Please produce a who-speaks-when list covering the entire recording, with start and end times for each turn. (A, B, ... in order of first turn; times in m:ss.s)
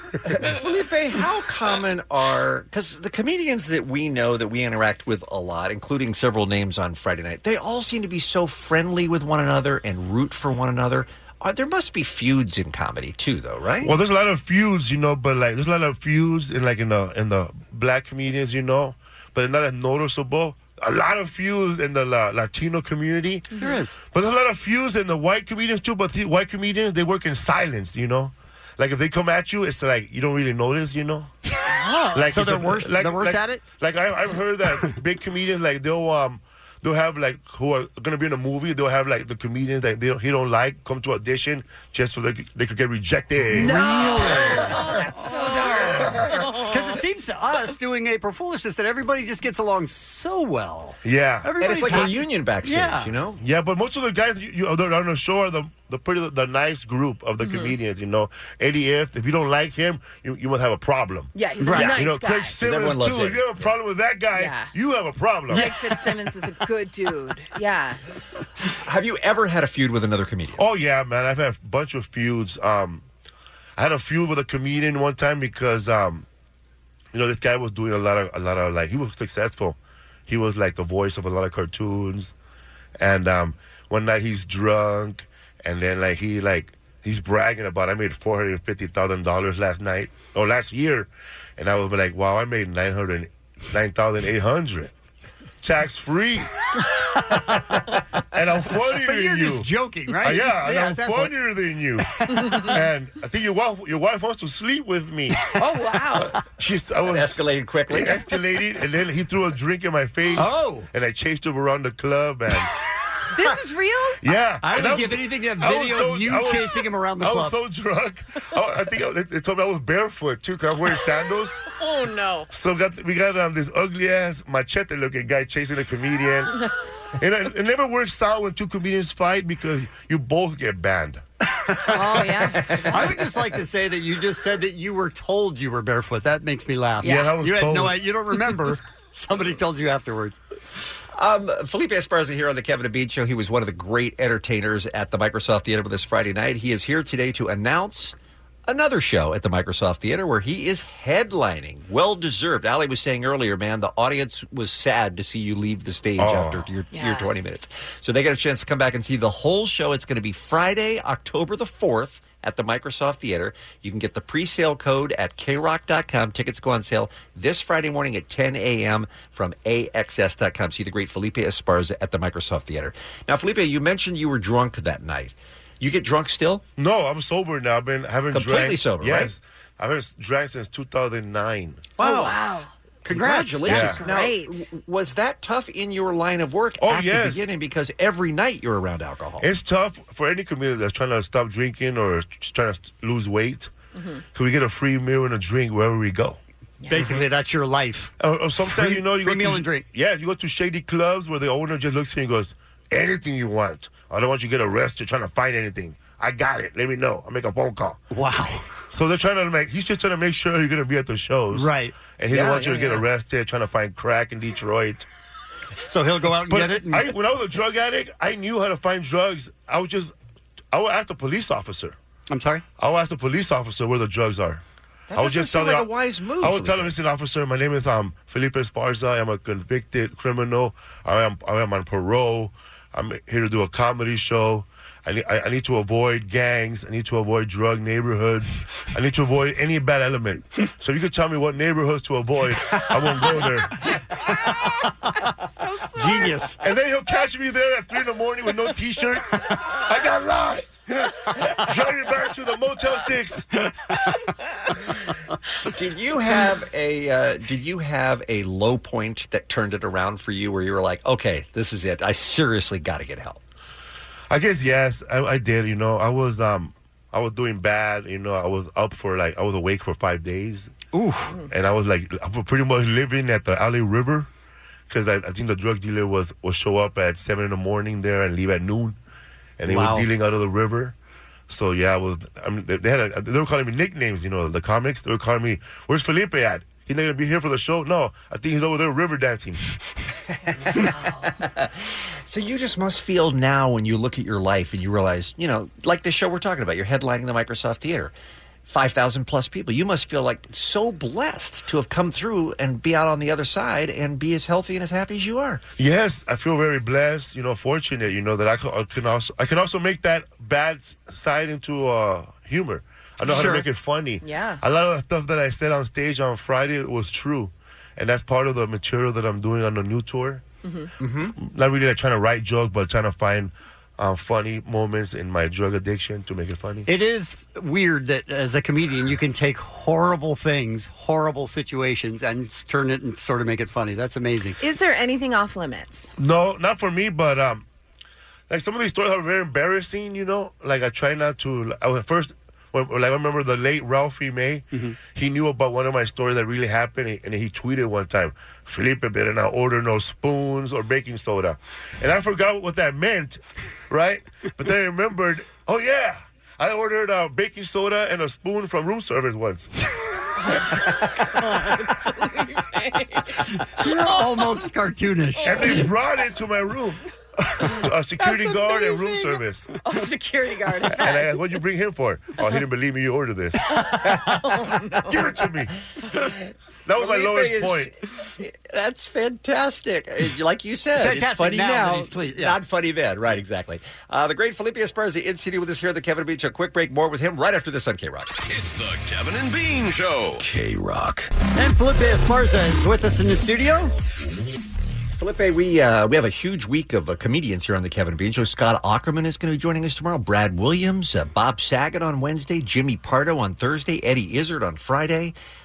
0:00.3-0:14.0 A
0:13.8-0:23.5 B
0:23.5-0:23.8 C
0:23.6-0:24.0 D
0:24.0-0:31.3 B
0:31.7-0:32.2 C
0:32.1-0:43.8 B
0:32.2-0:33.6 D
0:43.5-0:44.9 D
0:43.6-0:47.0 C
0:45.7-0:46.4 B
0:46.5-0:53.2 D
0:51.0-0:51.6 B
0:51.6-0:53.4 A
0:53.4-1:05.7 B
0:57.4-0:57.8 C
1:01.4-1:02.6 C
1:01.6-1:02.0 D
1:02.6-1:03.7 A
1:04.3-1:04.7 C
1:05.5-1:08.0 C
1:08.8-1:10.6 A
1:10.6-1:13.0 B
1:13.8-1:16.3 B
1:17.1-1:22.3 B
1:23.0-1:34.9 B
1:35.6-1:36.5 B
1:38.3-1:45.5 B
1:38.9-1:41.4 D
1:42.4-1:42.7 C
1:45.5-1:46.4 C
1:46.2-1:52.7 B
1:47.0-1:48.3 A
1:50.3-1:50.9 D
1:53.3-1:54.2 C
1:54.2-2:01.6 B
1:54.6-1:57.6 D
2:01.7-2:02.5 C
2:02.5-2:06.6 B
2:07.2-2:11.2 B
2:11.8-2:13.0 C
2:12.0-2:12.3 D
2:12.4-2:13.2 A
2:12.9-2:20.4 D
2:17.0-2:17.3 C
2:17.0-2:18.0 B
2:21.2-2:28.2 A
2:28.7-2:56.6 A
2:36.2-2:36.7 B
2:36.9-2:37.3 C
2:56.8-3:01.9 B
2:58.3-2:59.3 A
3:02.0-3:02.4 D
3:02.0-3:02.7 C
3:03.0-3:04.0 D
3:03.1-3:09.5 A
3:03.7-3:04.0 B
3:03.7-3:04.7 C
3:06.8-3:07.5 B
3:09.4-3:13.7 B
3:13.9-3:14.2 C
3:14.3-3:16.4 B
3:16.8-3:17.1 C
3:16.9-3:19.9 D
3:18.2-3:28.0 B
3:28.1-3:28.7 D
3:28.9-3:35.1 B
3:31.5-3:32.0 D
3:32.3-3:33.0 A
3:35.9-3:37.2 D
3:36.5-3:40.1 B
3:40.7-3:42.0 B
3:42.3-3:42.6 D
3:42.8-3:44.6 B
3:45.1-3:47.0 A
3:45.1-4:03.8 B
4:05.4-4:06.4 C
4:06.0-4:06.6 D
4:06.6-4:10.8 B
4:11.3-4:13.5 B
4:15.6-4:23.4 A
4:24.3-4:30.7 B
4:30.9-4:31.4 D
4:31.5-4:34.3 B
4:34.9-4:39.0 B
4:39.6-4:40.9 B
4:39.7-4:40.1 D
4:41.5-4:49.6 B
4:50.5-4:58.1 A
4:50.8-4:51.3 C
4:58.7-5:05.6 A
5:05.8-5:20.4 B
5:13.2-5:13.7 D
5:14.2-5:14.6 C
5:20.6-5:20.9 C
5:21.0-5:21.4 A
5:21.4-5:26.9 B
5:26.9-5:34.6 D
5:34.6-5:36.1 C
5:36.2-5:37.6 B
5:38.5-5:59.7 B
6:00.4-6:04.5 C
6:03.7-6:05.9 D
6:05.4-6:05.8 C
6:05.4-6:07.0 B
6:07.6-6:09.7 B
6:08.2-6:11.4 C
6:10.8-6:13.9 B
6:13.8-6:15.2 C
6:15.1-6:15.7 B
6:16.9-6:17.9 B
6:17.0-6:28.4 A
6:21.0-6:22.6 D
6:28.5-6:31.3 E
6:31.6-6:33.9 D
6:35.2-6:45.4 A